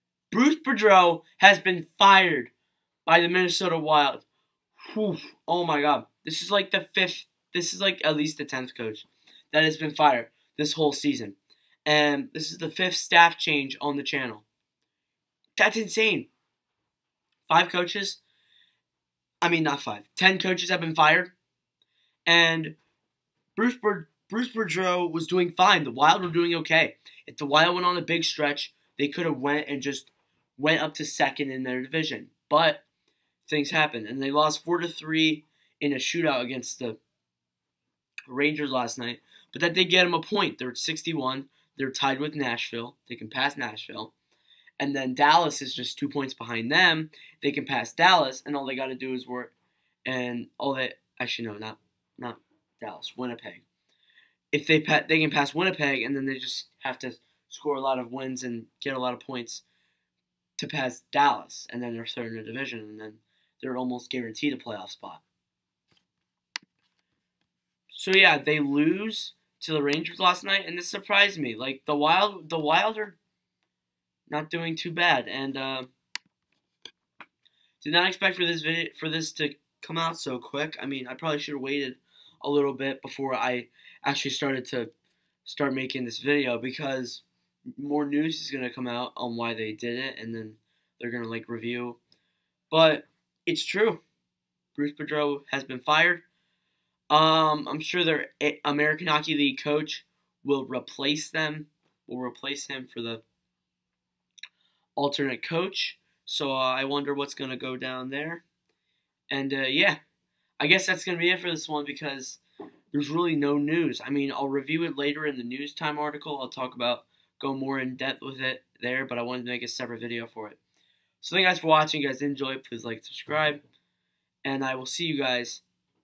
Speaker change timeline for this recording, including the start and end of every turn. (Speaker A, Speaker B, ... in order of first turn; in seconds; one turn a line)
Speaker A: 0.3-2.5
Speaker A: 3.1-4.2
Speaker A: 4.8-14.5
Speaker A: 15.6-16.3
Speaker A: 17.5-18.2
Speaker A: 19.4-21.3
Speaker A: 22.3-22.8
Speaker A: 23.6-32.8
Speaker A: 33.5-37.0
Speaker A: 38.3-44.1
Speaker A: 44.8-49.5
Speaker A: 50.0-53.6
Speaker A: 54.5-59.6
Speaker A: 60.6-65.2
Speaker A: 67.9-73.2
Speaker A: 74.3-75.9
Speaker A: 77.8-84.9
Speaker A: 85.5-87.2
Speaker A: 87.8-92.0
Speaker A: 92.7-94.0
Speaker A: 94.8-96.2
Speaker A: 97.1-103.2
Speaker A: 105.0-108.4
Speaker A: 109.3-110.0
Speaker A: 110.6-112.4
Speaker A: 112.9-120.6
Speaker A: 121.2-123.6
Speaker A: 124.5-125.6